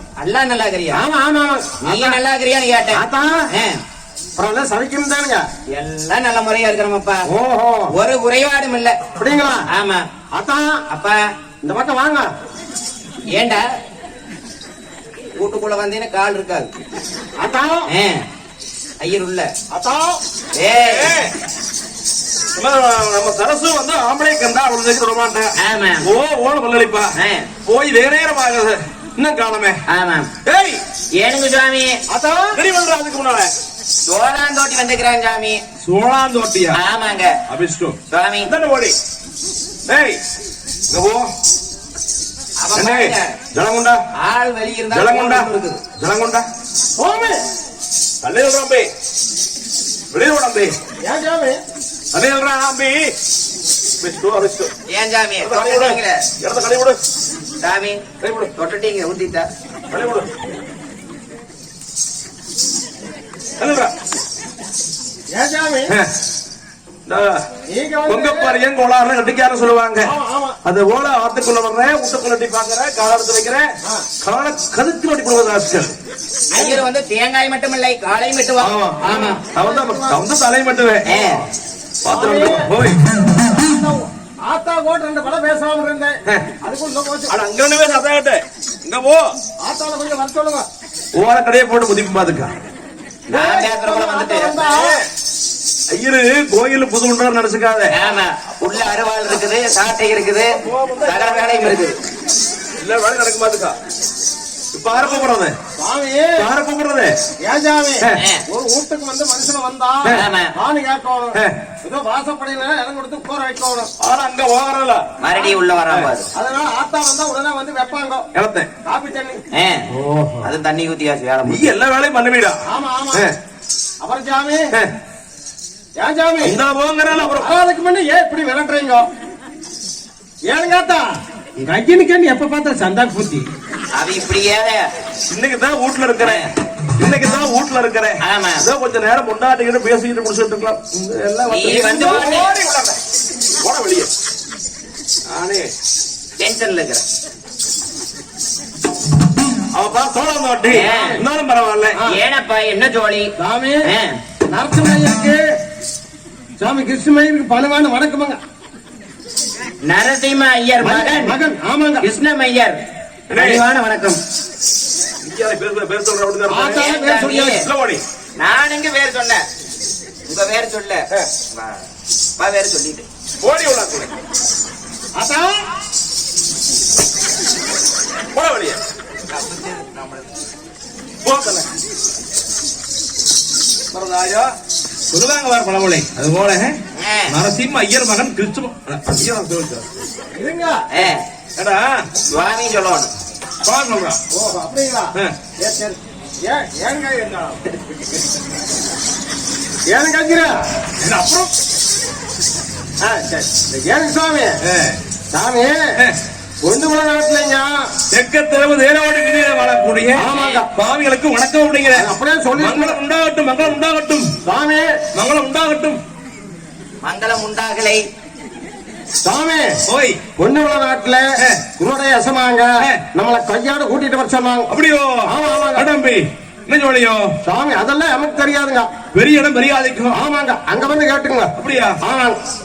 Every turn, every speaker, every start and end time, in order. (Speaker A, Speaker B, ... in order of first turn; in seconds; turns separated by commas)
Speaker A: 0.2-1.0, Speaker B: 0.9-2.2, Speaker A: 1.8-3.8, Speaker B: 3.0-3.4, Speaker B: 4.4-5.4, Speaker A: 5.7-7.2, Speaker B: 7.3-7.9, Speaker A: 7.9-9.0, Speaker B: 9.2-9.6, Speaker A: 9.7-10.0, Speaker B: 10.3-10.8, Speaker A: 10.9-11.2, Speaker B: 11.6-12.3, Speaker A: 13.3-13.6, Speaker A: 15.4-16.7, Speaker B: 17.4-17.9, Speaker A: 17.9-18.2, Speaker A: 19.0-19.5, Speaker B: 19.7-20.2, Speaker A: 20.6-21.1, Speaker C: 20.8-21.3, Speaker C: 22.6-27.1, Speaker A: 25.6-26.1, Speaker A: 27.1-27.5, Speaker C: 27.7-29.8, Speaker A: 29.9-30.3, Speaker C: 30.4-30.8, Speaker A: 31.2-32.0, Speaker B: 32.1-32.6, Speaker C: 32.5-33.5, Speaker A: 34.1-35.6, Speaker C: 35.8-36.8, Speaker A: 36.7-37.4, Speaker C: 37.5-39.0, Speaker A: 38.1-38.5, Speaker C: 39.9-40.2, Speaker C: 40.9-41.3, Speaker A: 42.6-43.4, Speaker C: 42.8-44.0, Speaker A: 44.2-45.8, Speaker C: 44.9-45.5, Speaker C: 46.0-46.5, Speaker B: 47.0-47.4, Speaker C: 48.2-48.9, Speaker C: 50.1-50.7, Speaker B: 51.0-51.6, Speaker C: 52.1-53.1, Speaker C: 54.0-54.7, Speaker A: 54.9-56.2, Speaker C: 55.4-57.0, Speaker A: 57.6-58.0, Speaker C: 58.2-58.5, Speaker A: 58.6-59.5, Speaker C: 59.9-60.3, Speaker C: 63.6-63.9, Speaker B: 65.3-65.9, Speaker C: 67.1-67.4, Speaker B: 67.7-68.6, Speaker C: 68.1-70.1, Speaker B: 70.0-70.6, Speaker C: 70.7-73.7, Speaker C: 74.2-75.9, Speaker A: 76.5-79.4, Speaker B: 76.5-76.8, Speaker C: 78.6-81.1, Speaker B: 79.1-80.2, Speaker A: 81.0-81.4, Speaker C: 82.0-83.0, Speaker B: 82.1-82.7, Speaker B: 83.4-87.4, Speaker C: 87.3-89.3, Speaker B: 89.6-90.7, Speaker C: 91.2-92.5, Speaker A: 93.3-94.6, Speaker B: 93.3-95.0, Speaker C: 94.6-95.0, Speaker C: 95.9-97.9, Speaker A: 97.9-102.0, Speaker C: 100.4-101.8, Speaker C: 102.8-103.8, Speaker C: 104.7-105.5, Speaker B: 105.8-106.5, Speaker C: 106.4-107.2, Speaker B: 107.4-113.9, Speaker A: 108.2-108.4, Speaker A: 110.1-110.5, Speaker C: 114.0-115.1, Speaker A: 115.2-116.3, Speaker B: 116.3-118.3, Speaker C: 118.3-118.7, Speaker B: 118.8-119.4, Speaker A: 119.5-119.9, Speaker C: 119.9-120.5, Speaker A: 120.4-121.7, Speaker C: 121.5-122.6, Speaker B: 122.7-123.3, Speaker B: 124.0-124.7, Speaker B: 126.0-126.6, Speaker C: 126.4-127.5, Speaker B: 127.2-129.0, Speaker B: 130.5-131.1, Speaker B: 131.6-133.5, Speaker A: 133.9-134.9, Speaker C: 135.3-136.4, Speaker A: 136.2-136.5, Speaker C: 137.0-143.0, Speaker A: 138.2-138.7, Speaker A: 141.5-142.5, Speaker C: 143.6-144.1, Speaker C: 145.3-145.7, Speaker A: 146.4-147.0, Speaker C: 149.7-152.0, Speaker A: 150.7-151.2, Speaker A: 152.1-153.3, Speaker B: 153.4-153.8, Speaker A: 153.8-154.2, Speaker B: 154.5-155.4, Speaker B: 156.6-158.4, Speaker A: 159.8-161.4, Speaker B: 160.8-162.1, Speaker A: 162.0-162.8, Speaker C: 163.3-163.6, Speaker A: 163.3-164.2, Speaker C: 165.2-168.0, Speaker B: 166.5-167.6, Speaker A: 166.7-167.6, Speaker A: 168.4-169.4, Speaker A: 170.3-171.8, Speaker A: 172.4-173.1, Speaker C: 173.4-174.1, Speaker B: 175.2-175.6, Speaker C: 178.3-178.8, Speaker A: 179.3-180.2, Speaker C: 181.2-181.7, Speaker C: 183.9-184.5, Speaker C: 185.1-186.8, Speaker A: 187.0-187.4, Speaker C: 187.3-190.0, Speaker B: 190.4-190.9, Speaker A: 190.9-191.2, Speaker C: 191.6-192.1, Speaker A: 192.3-193.1, Speaker C: 193.6-194.2, Speaker B: 194.3-197.8, Speaker B: 199.9-200.6, Speaker C: 201.0-201.5, Speaker B: 203.0-204.6, Speaker C: 204.6-205.0, Speaker B: 205.3-205.9, Speaker B: 206.6-207.7, Speaker C: 208.1-214.3, Speaker B: 210.2-210.7, Speaker A: 210.3-210.6, Speaker B: 211.9-213.0, Speaker B: 214.4-214.9, Speaker C: 215.1-216.0, Speaker A: 217.0-218.1, Speaker B: 219.2-219.7, Speaker C: 219.9-220.2, Speaker B: 220.4-221.2, Speaker B: 221.8-224.7, Speaker C: 224.7-227.4, Speaker B: 225.3-225.9, Speaker B: 227.4-228.9, Speaker C: 229.1-230.2, Speaker B: 230.1-232.4, Speaker C: 231.6-232.0